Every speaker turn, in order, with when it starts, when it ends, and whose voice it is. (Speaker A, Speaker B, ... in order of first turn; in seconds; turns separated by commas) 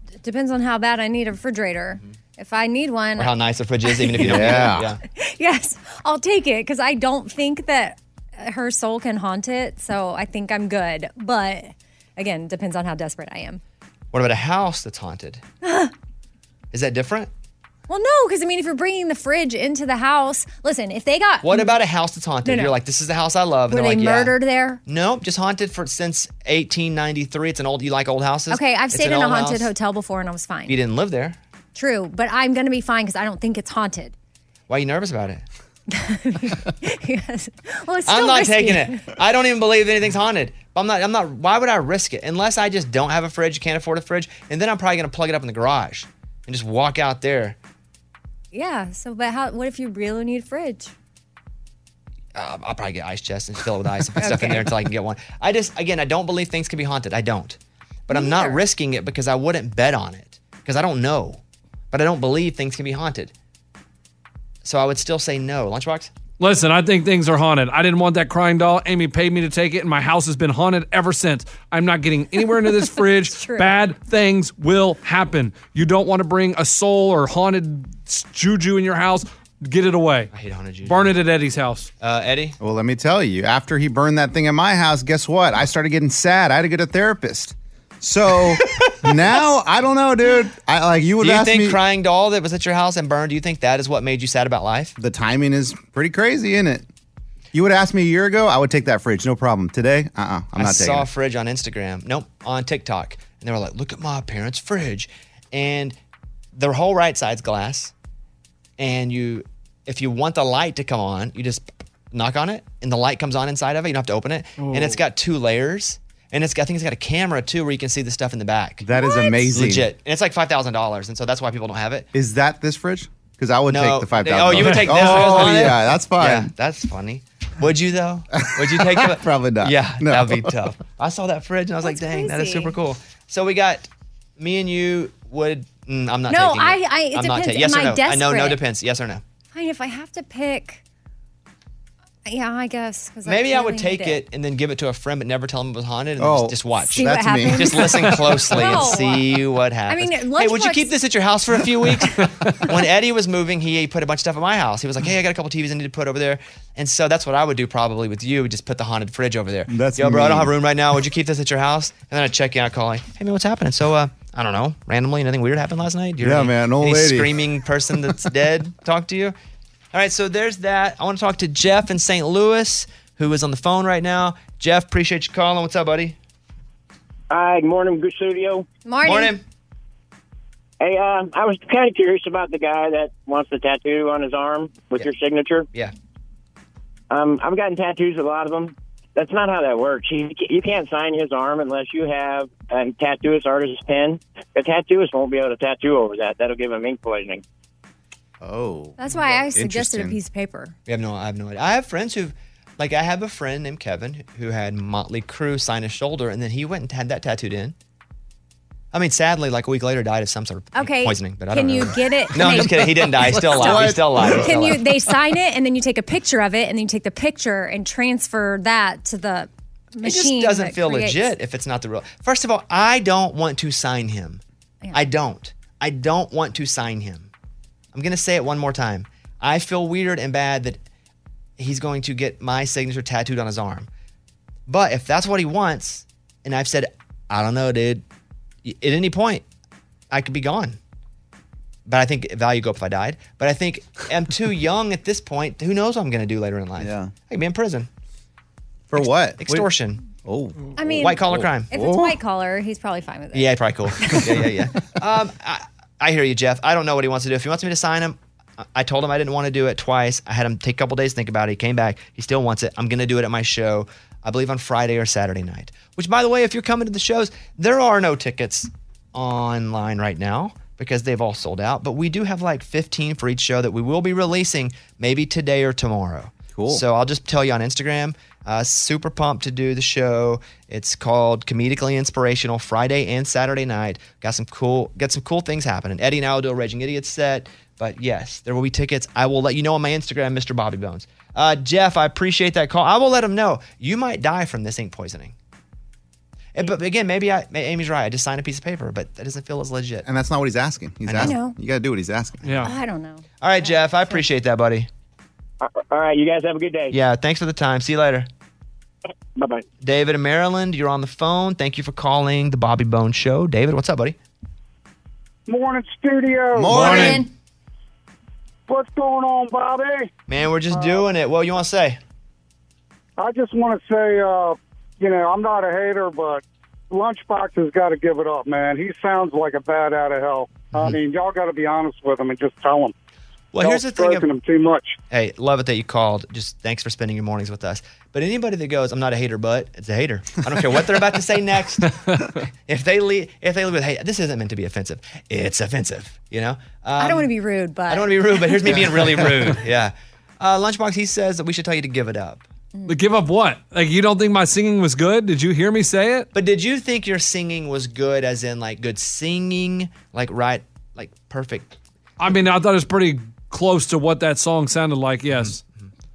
Speaker A: 0.2-3.3, Speaker B: 3.2-5.0, Speaker A: 3.8-13.6, Speaker C: 4.2-4.9, Speaker B: 14.1-15.4, Speaker A: 15.6-15.9, Speaker B: 16.7-17.3, Speaker A: 17.9-21.8, Speaker B: 21.4-24.3, Speaker A: 22.4-22.7, Speaker A: 23.7-24.8, Speaker B: 24.8-29.7, Speaker A: 28.5-30.7, Speaker B: 30.7-31.4, Speaker A: 31.7-34.1, Speaker B: 34.7-35.4, Speaker A: 35.9-39.0, Speaker B: 38.0-47.6, Speaker A: 48.5-50.9, Speaker B: 52.3-63.3, Speaker A: 54.2-54.7, Speaker A: 58.1-58.6, Speaker B: 64.6-66.1, Speaker D: 66.4-80.3, Speaker A: 73.2-73.8, Speaker B: 80.3-81.1, Speaker D: 80.8-81.9, Speaker B: 82.0-82.6, Speaker C: 82.6-91.8, Speaker B: 91.2-95.0, Speaker C: 95.0-96.8, Speaker C: 97.5-101.1, Speaker B: 100.5-106.0, Speaker B: 106.5-107.9, Speaker B: 108.8-118.8, Speaker D: 114.6-115.0, Speaker C: 118.8-119.9, Speaker A: 119.0-119.4, Speaker B: 119.5-122.1, Speaker C: 122.1-126.5, Speaker B: 123.7-133.9, Speaker D: 124.6-125.5, Speaker C: 128.5-130.5, Speaker A: 131.8-132.7, Speaker B: 134.4-139.2, Speaker A: 136.3-138.6, Speaker A: 139.5-140.8, Speaker A: 142.2-144.2, Speaker B: 143.2-169.3, Speaker C: 146.2-148.4, Speaker A: 146.8-149.3, Speaker A: 149.9-150.9, Speaker C: 159.7-160.5, Speaker C: 166.2-167.3, Speaker B: 169.9-176.2, Speaker E: 177.3-178.7, Speaker A: 178.8-179.3, Speaker B: 179.0-179.4, Speaker E: 180.8-185.7, Speaker E: 187.1-197.4, Speaker C: 198.4-200.2, Speaker A: 199.0-200.7, Speaker B: 200.8-207.7, Speaker B: 208.9-214.9, Speaker A: 210.7-221.3, Speaker C: 212.8-214.7, Speaker B: 220.0-224.4, Speaker B: 224.9-227.3, Speaker B: 227.9-230.8, Speaker B: 231.6-233.9, Speaker B: 234.7-238.0, Speaker B: 238.6-239.4, Speaker B: 240.1-240.8, Speaker B: 241.8-247.9, Speaker C: 246.8-247.1, Speaker C: 248.9-249.7, Speaker B: 248.9-250.0, Speaker C: 250.2-252.2, Speaker A: 250.8-254.2, Speaker B: 251.0-251.7, Speaker B: 253.3-295.3, Speaker C: 276.5-276.8, Speaker B: 296.5-300.0, Speaker C: 300.0-302.5, Speaker B: 301.1-301.4, Speaker A: 301.2-301.6, Speaker D: 302.4-302.7, Speaker A: 302.6-304.2, Speaker B: 303.4-304.9, Speaker E: 305.6-306.9, Speaker B: 306.9-308.3, Speaker E: 309.4-309.6, Speaker B: 309.8-314.2, Speaker F: 315.5-317.0, Speaker C: 316.5-317.2, Speaker A: 316.7-317.3, Speaker D: 316.8-317.1, Speaker F: 318.7-320.1, Speaker B: 320.3-322.0, Speaker F: 320.7-321.0, Speaker F: 323.2-332.9, Speaker B: 333.5-334.3, Speaker F: 333.6-335.0, Speaker B: 335.1-341.9, Speaker D: 341.9-342.2, Speaker B: 342.6-347.3, Speaker A: 347.0-348.7, Speaker B: 347.9-352.4, Speaker C: 348.8-349.4, Speaker A: 352.7-353.0, Speaker D: 352.9-356.3, Speaker B: 356.3-361.7, Speaker D: 362.2-365.6, Speaker B: 365.3-365.9